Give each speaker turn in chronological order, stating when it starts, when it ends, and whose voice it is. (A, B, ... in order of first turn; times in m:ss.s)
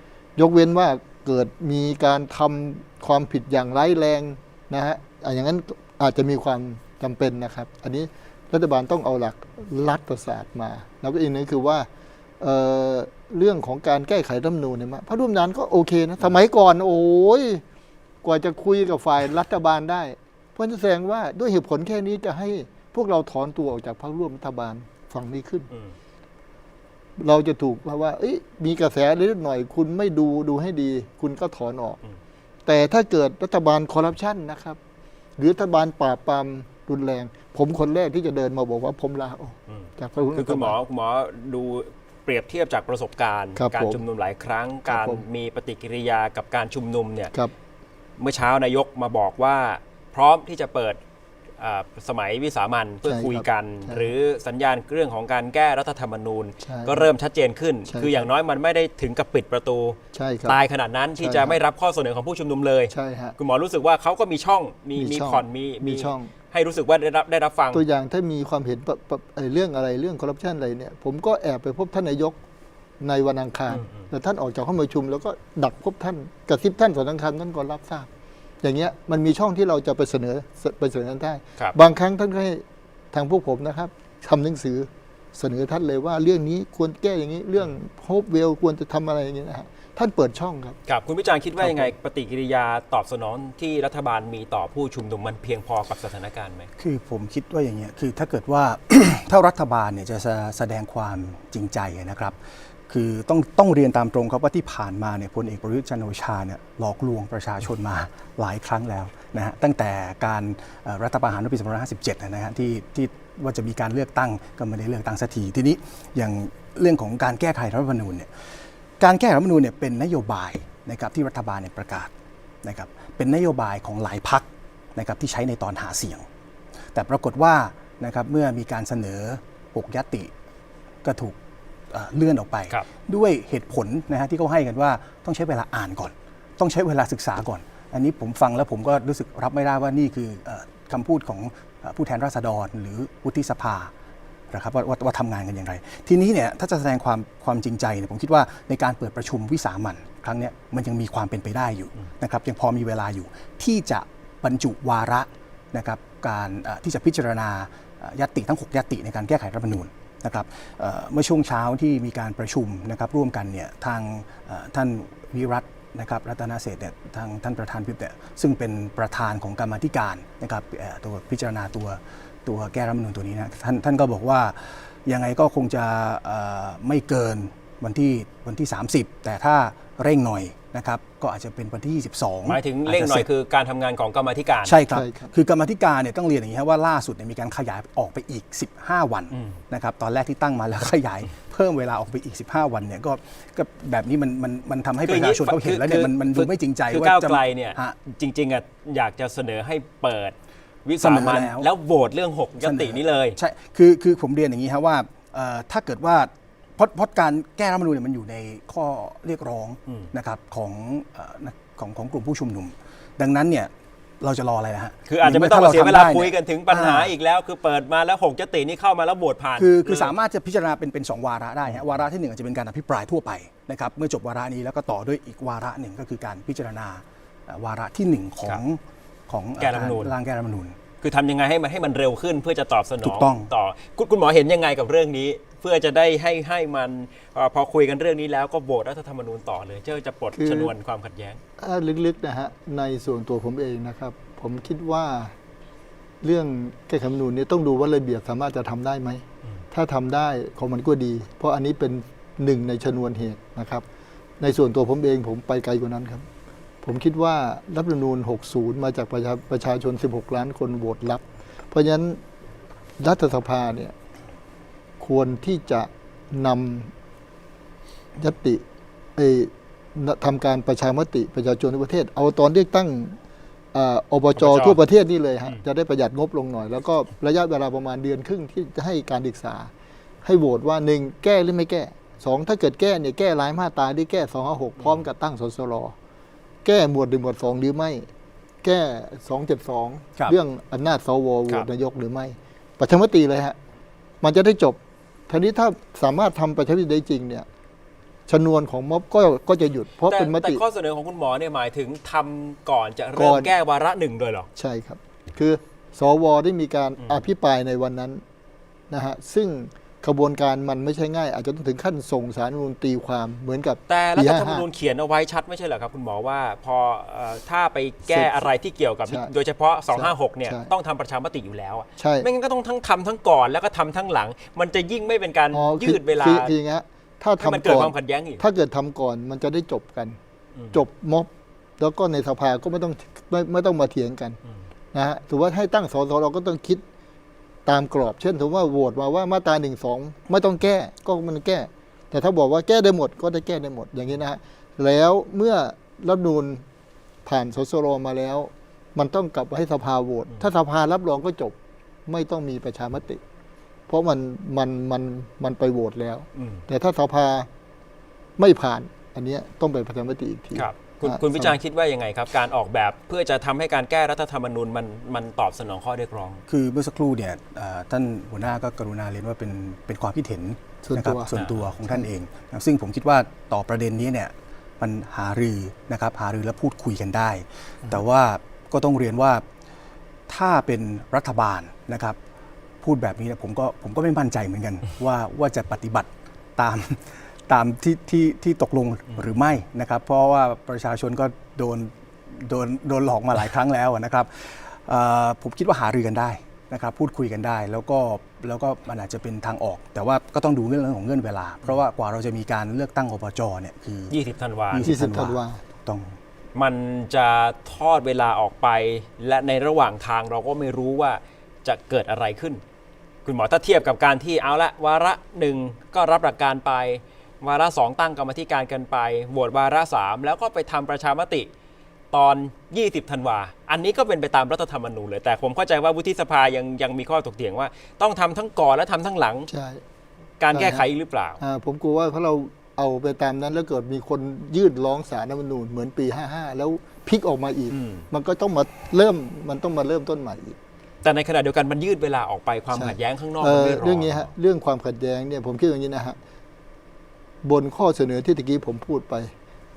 0:00.4-0:11.9 A
0:12.4-0:17.6 A
0:18.2-0:25.7 A
0:27.2-0:32.0 A
0:32.6-0:34.8 A
0:35.4-0:40.8 A
0:39.7-0:47.3 B
0:43.6-0:44.0 A
0:44.9-0:45.2 A
0:48.2-0:51.0 B
0:51.6-1:07.8 B
0:53.0-0:54.1 A
0:56.6-0:57.1 A
0:57.9-0:58.3 A
1:00.1-1:00.6 A
1:01.2-1:01.6 A
1:02.9-1:03.3 A
1:05.0-1:06.3 A
1:07.7-1:12.4 A
1:13.0-1:18.1 A
1:13.7-1:14.1 B
1:18.6-1:30.8 A
1:30.9-1:36.7 B
1:36.8-1:42.4 C
1:42.9-1:58.3 C
1:59.0-2:02.1 C
2:02.6-2:06.3 C
2:06.9-2:10.3 C
2:11.0-2:11.4 C
2:11.9-2:23.9 C
2:24.5-3:03.3 C
3:02.4-3:04.8 B
3:04.6-3:18.0 C
3:04.9-3:05.3 A
3:09.3-3:09.6 B
3:15.0-3:20.3 B
3:20.8-3:23.4 B
3:21.0-3:21.7 C
3:22.6-3:37.1 C
3:35.1-3:40.1 B
3:39.6-3:50.8 C
3:49.6-3:50.1 B
3:51.0-4:01.4 B
3:53.0-3:53.5 C
4:00.3-4:00.7 A
4:01.6-4:05.3 A
4:06.2-4:13.8 A
4:14.4-4:16.3 A
4:16.8-4:22.2 A
4:23.0-4:23.9 A
4:25.0-4:26.9 A
4:28.2-4:28.6 A
4:29.2-4:33.2 A
4:33.7-4:39.7 A
4:34.4-4:34.8 B
4:40.2-4:45.9 A
4:46.6-4:48.1 A
4:48.6-4:53.6 A
4:54.2-4:57.5 A
4:58.3-5:00.6 A
5:00.1-5:04.5 B
5:03.2-5:03.5 A
5:04.6-5:08.2 A
5:07.0-5:07.2 B
5:08.9-5:14.6 A
5:13.9-5:26.5 B
5:18.1-5:18.4 A
5:19.9-5:20.7 A
5:22.0-5:22.3 A
5:25.5-5:30.2 A
5:27.4-5:28.4 B
5:30.5-5:30.8 B
5:30.7-5:34.4 A
5:34.9-5:36.8 A
5:37.6-5:46.6 A
5:47.2-5:53.2 A
5:53.9-5:57.5 A
5:56.4-5:56.6 B
5:58.4-6:01.6 A
6:00.6-6:06.4 B
6:06.5-6:19.4 C
6:10.8-6:11.3 A
6:11.3-6:11.6 B
6:20.3-6:22.2 C
6:22.8-6:44.2 C
6:44.1-6:45.0 B
6:44.7-6:46.2 C
6:44.8-6:45.6 A
6:46.6-6:52.6 B
6:53.2-7:01.5 B
7:02.1-7:09.5 B
7:09.5-7:09.8 A
7:10.4-7:11.4 B
7:10.5-7:10.8 A
7:11.4-7:20.6 A
7:17.7-7:18.0 B
7:21.0-7:24.3 B
7:22.7-7:26.2 A
7:27.4-7:29.3 A